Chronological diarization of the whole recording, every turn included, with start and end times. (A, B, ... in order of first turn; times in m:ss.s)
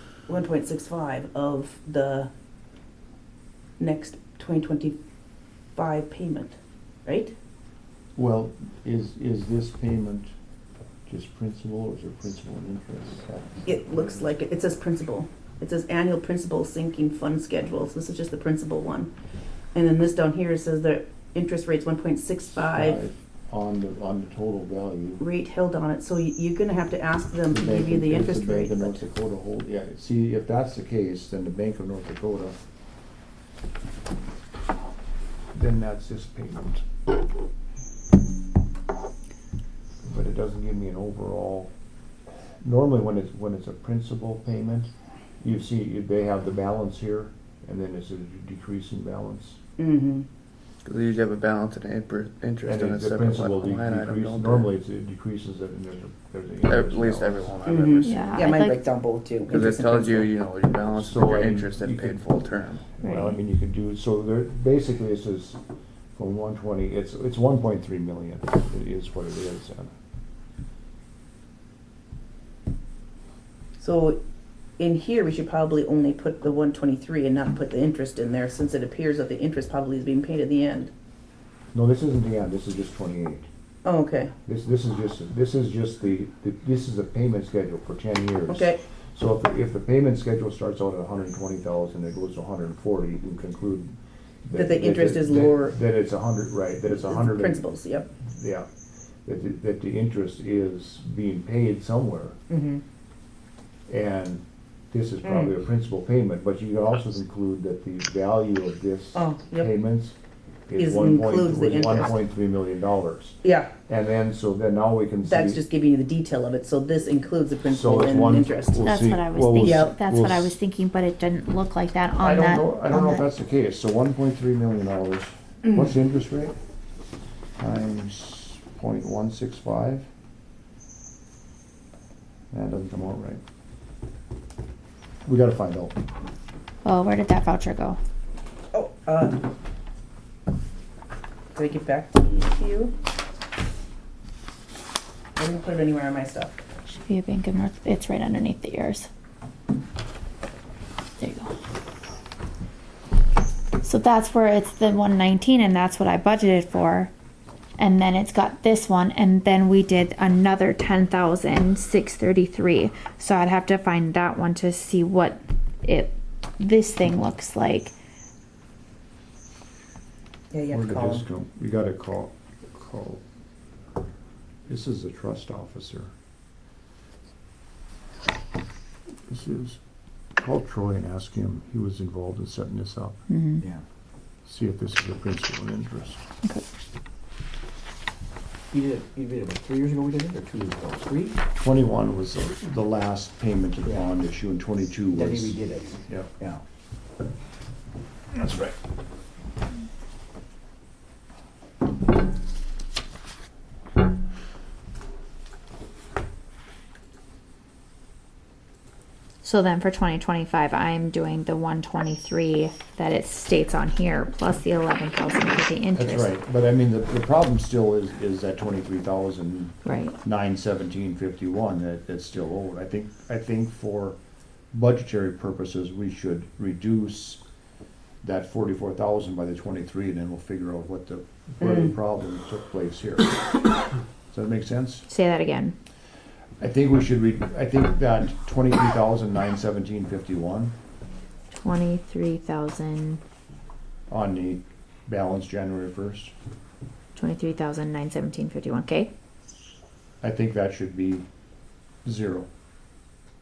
0:00.3-0:02.3 A
0:03.8-0:05.0 A
0:05.7-0:07.3 A
0:08.2-0:10.3 B
0:11.1-0:14.2 B
0:13.6-0:19.1 A
0:19.7-0:23.0 A
0:22.6-0:25.2 B
0:25.2-0:29.0 A
0:27.5-0:32.6 B
0:35.5-0:36.8 B
0:40.0-0:41.7 B
0:42.6-0:44.9 B
0:45.4-0:49.6 B
0:49.8-0:50.3 A
0:50.8-0:54.7 C
0:52.6-0:57.6 B
0:56.6-0:58.4 C
0:57.7-1:00.3 A
0:58.0-0:58.8 D
0:59.5-1:02.8 C
1:00.9-1:05.6 B
1:03.0-1:03.4 D
1:06.1-1:09.9 B
1:13.8-1:14.2 A
1:14.8-1:20.9 A
1:21.7-1:23.5 B
1:23.8-1:24.3 A
1:24.4-1:33.9 B
1:28.5-1:28.8 A
1:34.4-1:37.6 B
1:34.6-1:35.8 A
1:37.0-1:38.1 A
1:38.2-1:38.7 B
1:39.2-1:42.4 B
1:42.5-1:42.8 A
1:43.9-1:50.2 B
1:45.2-1:45.5 A
1:49.1-1:49.7 A
1:50.7-1:55.6 B
1:50.8-1:52.1 A
1:53.4-1:53.7 A
1:55.2-1:59.0 A
1:57.7-2:00.5 B
1:58.8-2:03.2 D
1:59.6-1:59.9 A
2:02.2-2:06.5 B
2:07.6-2:10.1 B
2:12.5-2:13.4 B
2:15.2-2:16.0 B
2:16.8-2:18.0 D
2:18.7-2:19.5 A
2:21.5-2:22.9 A
2:25.4-2:26.6 A
2:26.9-2:29.1 D
2:31.2-2:31.5 D
2:33.8-2:37.1 D
2:37.8-2:47.9 D
2:50.5-2:51.2 A
2:50.7-2:53.2 B
2:54.7-2:56.1 B
2:59.3-2:59.8 B
3:00.4-3:03.2 B
3:03.3-3:03.6 D
3:04.4-3:06.2 B
3:08.7-3:10.4 C
3:08.8-3:11.3 E
3:11.6-3:16.3 B
3:15.1-3:15.6 E
3:18.3-3:18.8 B
3:29.4-3:36.3 D
3:36.0-3:44.2 B
3:39.8-3:40.2 D
3:44.7-3:47.4 B
3:48.2-3:53.4 B
3:54.3-3:55.1 B
3:55.1-3:55.7 D
3:56.6-4:00.8 B
4:01.6-4:03.2 D
4:04.1-4:06.3 B
4:07.2-4:09.1 D
4:10.2-4:11.2 B
4:12.0-4:12.5 B